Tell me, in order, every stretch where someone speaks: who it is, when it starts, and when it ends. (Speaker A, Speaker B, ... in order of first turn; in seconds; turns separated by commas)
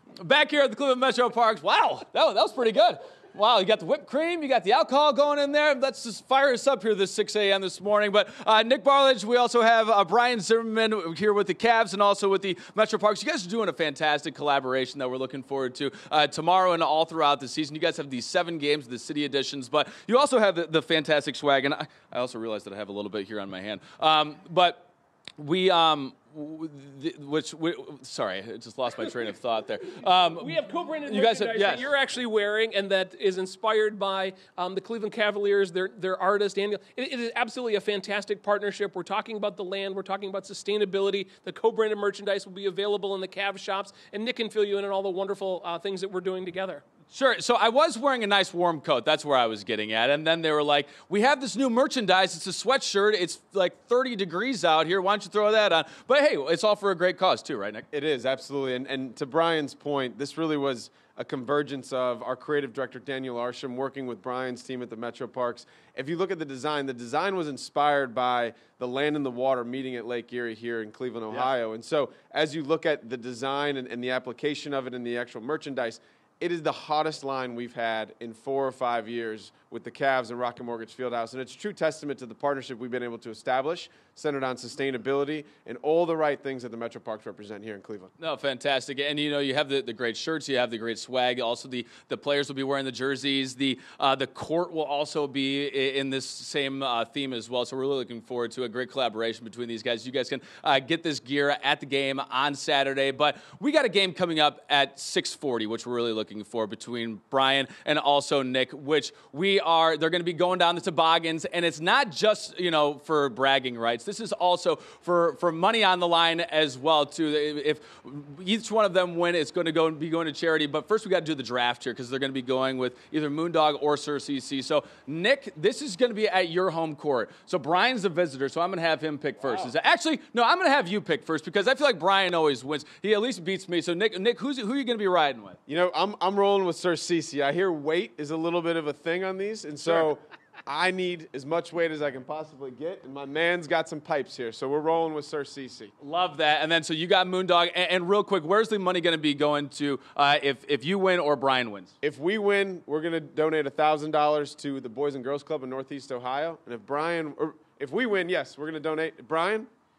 Speaker A: 0.2-30.6, Speaker B: 30.4-46.8, Speaker A: 31.1-31.9, Speaker A: 47.1-57.9, Speaker C: 57.9-88.1, Speaker A: 88.2-135.6, Speaker C: 135.7-145.9, Speaker A: 146.0-151.9, Speaker C: 152.0-159.7